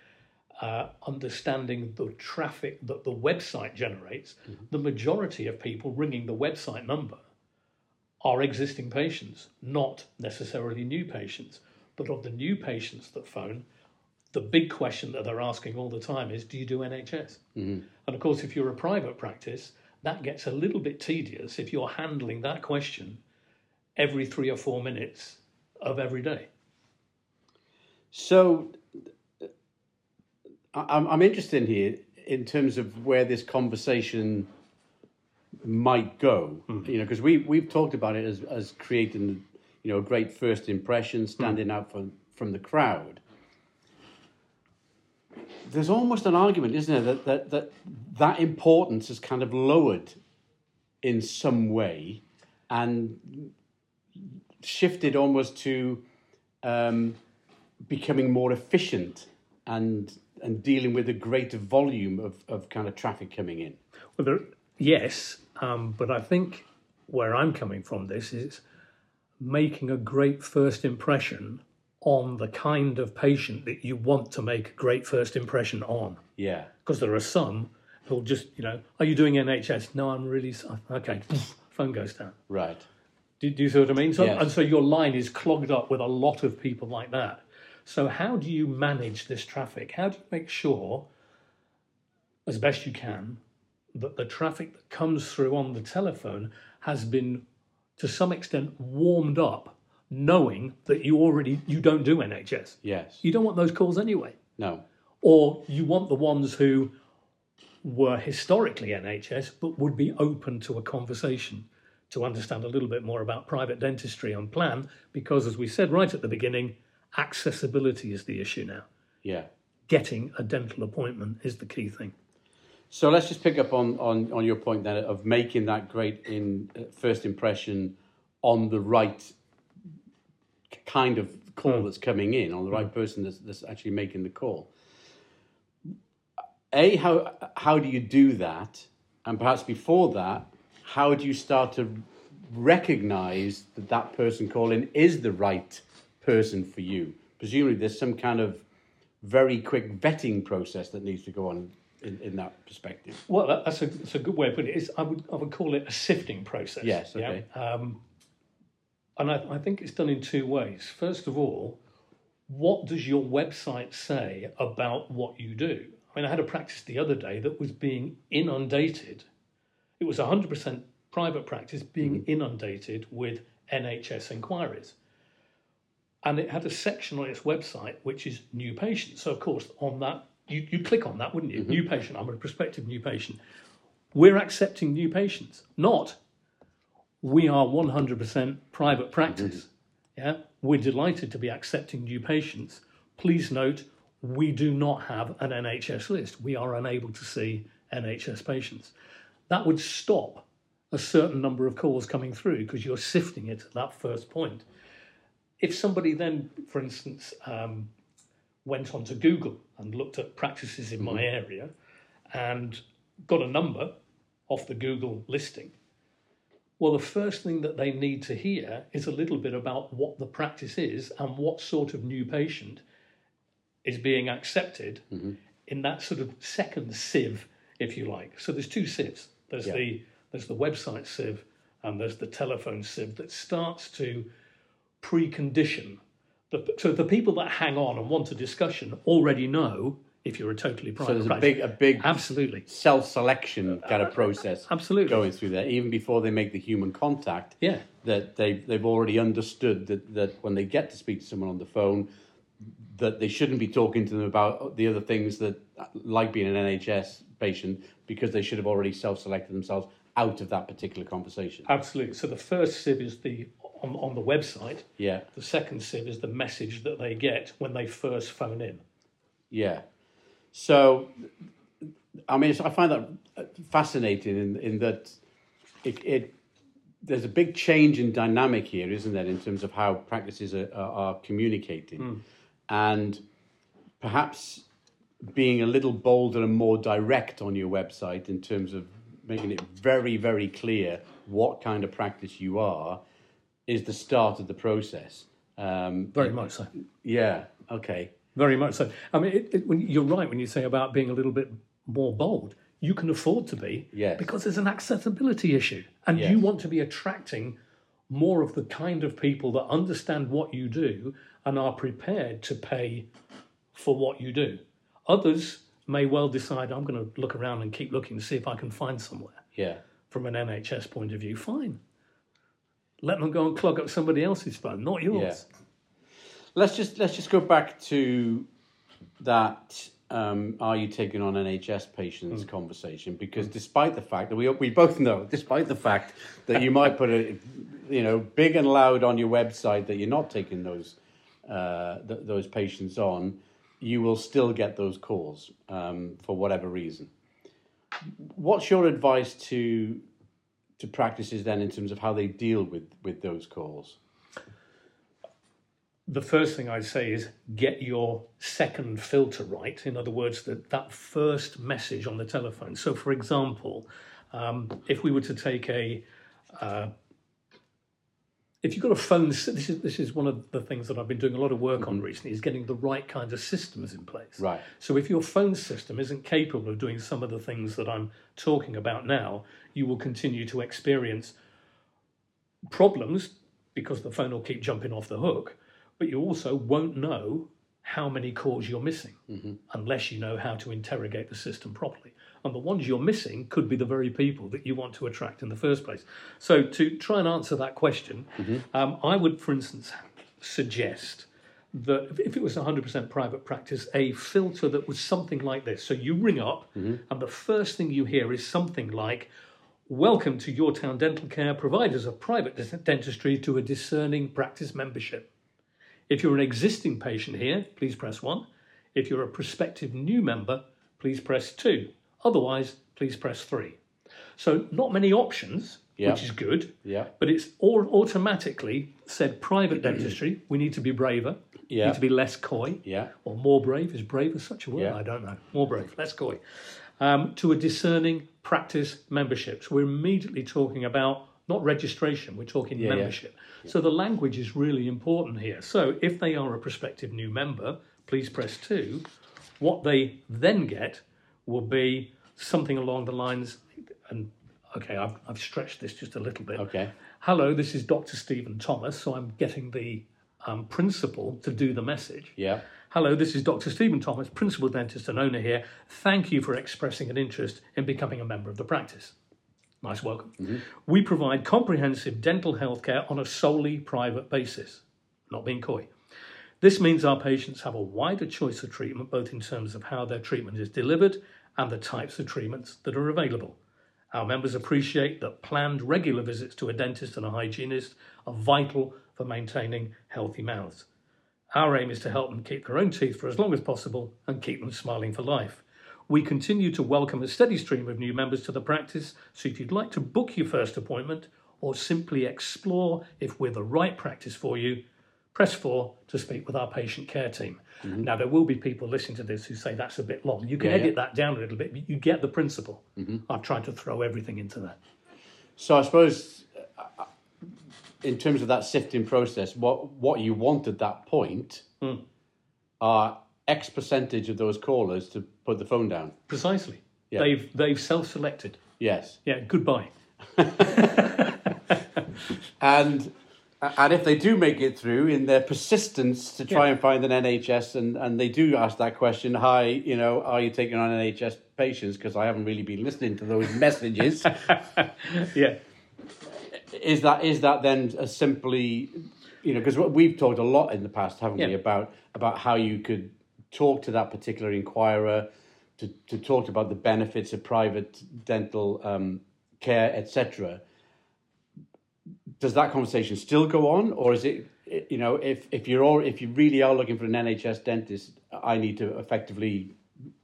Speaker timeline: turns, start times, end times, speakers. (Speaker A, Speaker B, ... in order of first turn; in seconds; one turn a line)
Speaker A: 0.6-7.2
Speaker A: 8.2-13.6
Speaker A: 14.3-17.4
Speaker B: 17.6-17.8
Speaker A: 18.0-23.2
Speaker A: 23.9-26.5
Speaker B: 28.1-28.8
Speaker B: 30.7-34.5
Speaker B: 35.6-43.2
Speaker B: 45.6-50.2
Speaker B: 51.0-53.5
Speaker B: 54.6-56.0
Speaker B: 56.6-57.2
Speaker B: 57.9-63.8
Speaker A: 64.2-68.6
Speaker A: 69.4-76.2
Speaker B: 76.4-76.7
Speaker A: 76.8-82.4
Speaker B: 82.5-82.8
Speaker A: 83.4-91.0
Speaker B: 84.2-84.5
Speaker A: 92.5-93.4
Speaker A: 93.9-97.4
Speaker A: 98.0-104.4
Speaker B: 102.8-103.2
Speaker B: 104.6-104.8
Speaker A: 105.2-106.9
Speaker A: 107.8-118.9
Speaker A: 119.9-122.1
Speaker B: 122.9-129.3
Speaker B: 130.8-134.7
Speaker B: 136.7-148.6
Speaker B: 149.2-153.2
Speaker A: 153.3-158.0
Speaker B: 156.8-157.4
Speaker A: 159.2-161.8
Speaker A: 162.5-169.2
Speaker A: 170.0-174.9
Speaker A: 176.2-183.4
Speaker A: 184.1-186.2
Speaker A: 187.2-198.9
Speaker A: 199.5-204.6
Speaker A: 205.6-207.9
Speaker A: 208.6-211.7
Speaker B: 211.0-211.2
Speaker A: 212.3-214.0
Speaker A: 214.5-215.7
Speaker A: 216.8-222.8
Speaker A: 223.8-225.0
Speaker A: 225.7-234.3
Speaker A: 235.0-242.6
Speaker B: 241.0-252.1
Speaker A: 244.0-245.2
Speaker A: 247.6-247.9
Speaker B: 252.8-261.7
Speaker A: 261.6-268.8
Speaker B: 265.0-265.2
Speaker B: 269.5-269.8
Speaker B: 270.5-271.2
Speaker B: 272.3-275.2
Speaker B: 275.8-276.3
Speaker B: 277.0-282.1
Speaker B: 282.7-283.2
Speaker B: 284.0-284.6
Speaker B: 285.2-293.0
Speaker B: 293.7-296.4
Speaker A: 296.1-296.7
Speaker B: 297.0-298.1
Speaker A: 298.3-307.6
Speaker B: 303.9-304.3
Speaker B: 306.1-306.4
Speaker A: 308.1-313.1
Speaker A: 313.7-319.4
Speaker B: 319.5-319.8
Speaker A: 320.1-321.8
Speaker A: 323.0-325.4
Speaker B: 325.1-325.4
Speaker B: 326.5-328.5
Speaker B: 329.2-347.1
Speaker B: 348.2-350.0
Speaker B: 350.8-354.0
Speaker A: 356.1-366.9
Speaker A: 368.6-381.3
Speaker B: 374.4-374.6
Speaker A: 382.6-409.3
Speaker B: 406.8-407.0
Speaker A: 409.9-415.3
Speaker A: 416.1-423.8
Speaker A: 424.4-436.4
Speaker B: 426.0-426.2
Speaker B: 426.8-427.1
Speaker B: 431.7-432.0
Speaker B: 432.8-433.1
Speaker A: 437.0-449.1
Speaker B: 442.7-443.1
Speaker A: 449.6-456.7
Speaker B: 456.5-456.9
Speaker A: 457.2-462.4
Speaker B: 462.4-462.6
Speaker A: 462.9-469.1
Speaker A: 469.8-475.9
Speaker A: 476.6-483.6
Speaker A: 484.1-490.9
Speaker A: 491.5-504.8
Speaker A: 505.3-514.8
Speaker B: 507.8-508.1
Speaker B: 510.6-510.9
Speaker B: 515.6-517.1
Speaker B: 518.0-521.6
Speaker B: 522.8-526.1
Speaker A: 526.3-528.6
Speaker B: 528.8-529.2
Speaker A: 529.2-529.9
Speaker A: 530.5-531.6
Speaker B: 532.6-544.4
Speaker A: 544.4-545.6
Speaker B: 546.5-560.6
Speaker B: 562.4-569.7